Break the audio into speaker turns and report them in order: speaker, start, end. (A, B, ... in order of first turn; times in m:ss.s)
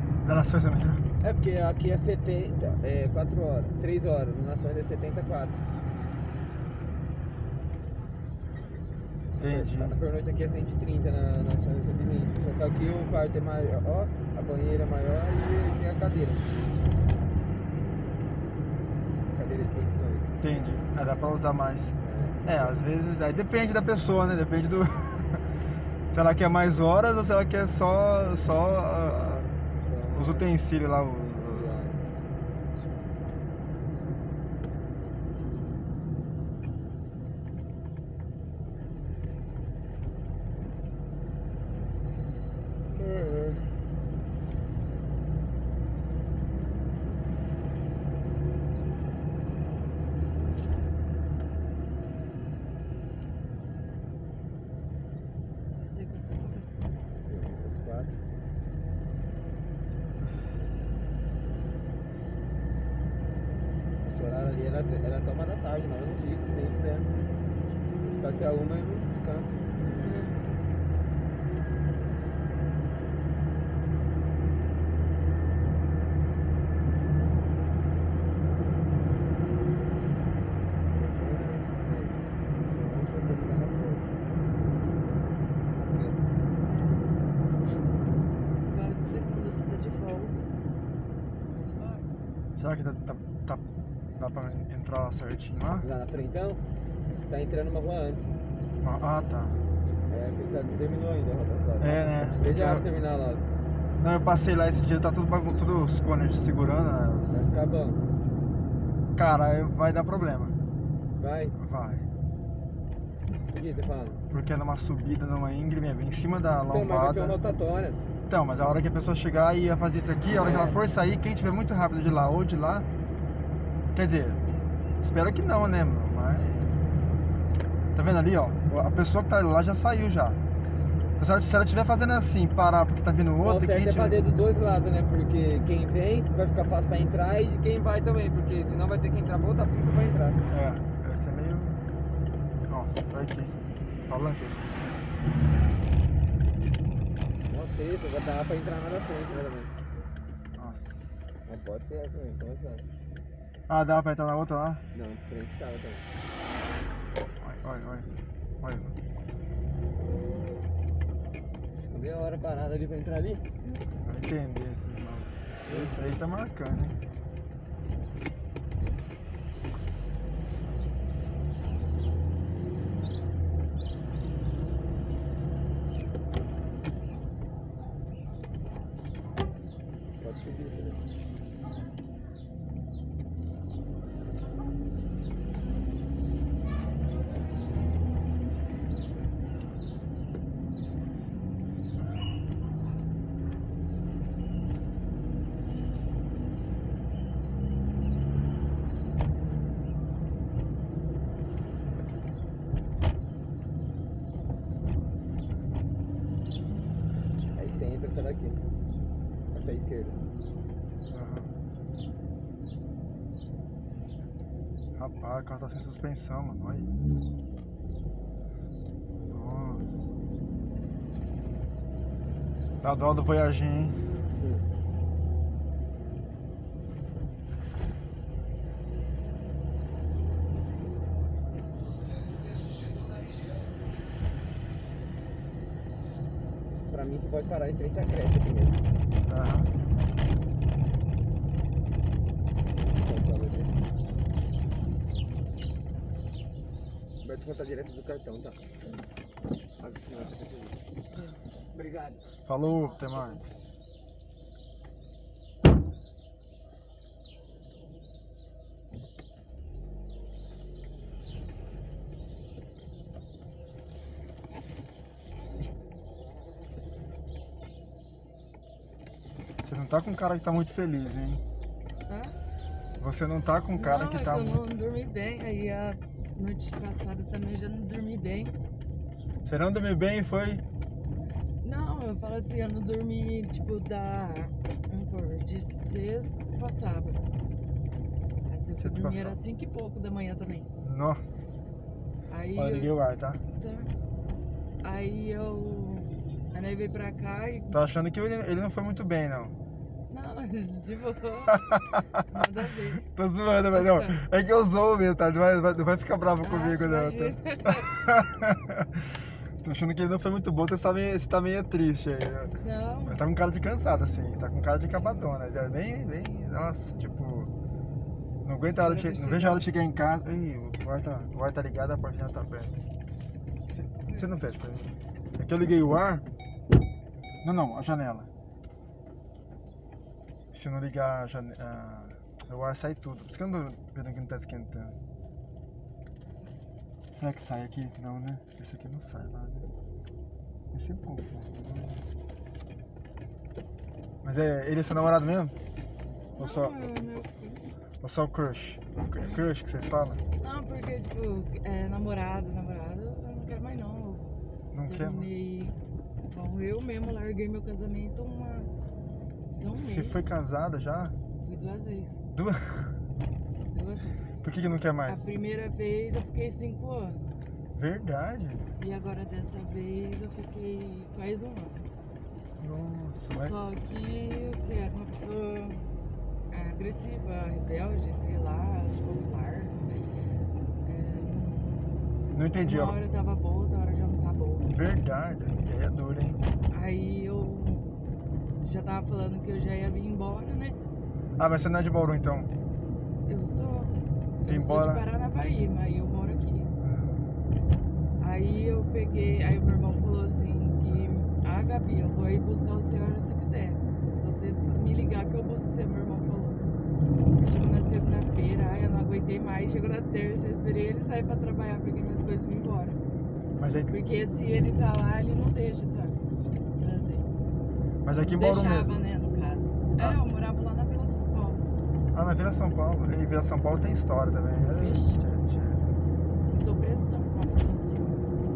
0:00.2-0:01.0 A
0:01.2-0:05.6 B
0:09.4-0:10.0 A
0:09.4-0:16.5 B
0:19.3-0:20.3 B
0:20.4-0:25.4 A
0:22.0-0:22.8 B
0:26.1-0:29.4 A
0:29.0-0:30.6 B
0:30.1-0:31.8 A
0:31.4-0:32.0 B
0:43.0-0:43.6 B
0:55.7-0:56.8 C
0:57.2-0:58.2 B
1:04.0-1:07.1 B
1:08.2-1:09.7 B
1:10.0-1:10.6 C
1:21.0-1:24.1 B
1:25.9-1:26.2 B
1:26.6-1:27.1 C
1:28.7-1:30.5 C
1:31.5-1:32.1 C
1:32.6-1:33.6 A
1:34.2-1:35.9 A
1:35.8-1:36.6 B
1:37.3-1:38.3 B
1:38.8-1:39.6 A
1:40.1-1:43.5 B
1:41.8-1:42.9 A
1:44.0-1:47.5 A
1:47.3-1:48.0 B
1:49.2-1:50.6 A
1:51.2-1:51.6 B
1:51.6-1:52.1 A
1:53.5-1:54.2 B
1:54.3-1:57.4 A
1:56.7-1:58.0 B
1:58.3-2:02.9 A
2:00.4-2:00.8 B
2:03.9-2:04.4 A
2:05.0-2:06.8 A
2:08.0-2:10.4 A
2:11.2-2:14.2 A
2:13.4-2:20.4 B
2:20.5-2:21.8 A
2:22.7-2:23.5 A
2:24.1-2:25.0 A
2:27.5-2:29.7 B
2:30.6-2:31.2 A
2:31.5-2:32.9 B
2:33.7-2:34.8 A
2:34.9-2:36.0 B
2:37.4-2:38.1 A
2:38.6-2:39.0 A
2:41.9-2:43.5 B
2:44.0-2:47.0 A
2:45.6-2:46.0 B
3:00.2-3:01.0 B
3:27.6-3:28.6 B
3:29.5-3:30.2 B
3:31.1-3:31.5 A
3:35.0-3:36.9 A
3:39.3-3:40.0 A
3:42.8-3:44.0 A
3:56.9-3:58.8 B
3:59.3-3:59.7 A
4:03.0-4:03.8 B
4:07.2-4:08.6 B
4:09.8-4:10.8 B
4:11.1-4:11.4 C
4:11.7-4:12.2 B
4:12.5-4:13.6 A
4:29.6-4:31.4 A
4:32.1-4:32.4 C
4:33.0-4:34.6 A
4:33.7-4:38.5 C
4:39.5-4:40.6 A
4:41.6-4:47.2 C
4:48.5-4:50.7 C
4:48.8-4:49.4 A
4:50.8-4:51.4 A
4:52.3-4:52.9 C
4:52.6-4:53.4 A
4:53.5-4:53.9 C
4:54.8-4:57.8 C
4:57.7-4:59.6 A
5:00.1-5:03.0 C
5:01.7-5:02.5 A
5:03.0-5:09.1 A
5:03.7-5:04.2 C
5:06.4-5:07.9 C
5:09.6-5:17.5 A
5:12.6-5:13.2 C
5:14.9-5:15.3 C
5:18.4-5:22.8 A
5:18.7-5:19.7 C
5:23.7-5:26.2 A
5:24.1-5:24.3 C
5:27.4-5:28.3 A
5:30.5-5:35.0 A
5:37.2-5:39.7 A
5:40.7-5:42.0 A
5:44.2-5:45.6 A
5:46.4-5:47.0 A
5:46.4-5:47.7 C
5:48.0-5:50.2 A
5:50.4-5:54.4 C
5:54.7-5:55.3 A
5:54.9-5:55.8 C
5:56.3-5:58.8 C
5:59.5-6:00.3 C
5:59.7-6:01.2 A
6:01.4-6:02.2 C
6:02.3-6:02.9 A
6:03.7-6:04.4 C
6:04.4-6:05.3 A
6:05.1-6:07.3 C
6:07.8-6:08.7 A
6:08.8-6:11.9 C
6:12.6-6:13.6 A
6:13.3-6:15.9 C
6:16.5-6:19.8 C
6:20.8-6:22.0 C
6:22.3-6:23.0 A
6:22.6-6:24.8 C
6:24.6-6:26.4 A
6:26.7-6:27.9 C
6:28.6-6:30.8 C
6:31.4-6:32.5 A
6:33.3-6:36.7 C
6:34.5-6:35.1 A
6:36.8-6:37.4 A
6:38.2-6:46.6 C
6:47.3-6:53.0 C
6:53.6-6:53.9 A
6:53.9-6:56.2 C
6:56.7-6:57.3 C
6:58.0-6:59.0 A
6:58.2-7:01.6 C
7:02.1-7:05.9 A
7:04.7-7:05.2 C
7:06.4-7:08.3 C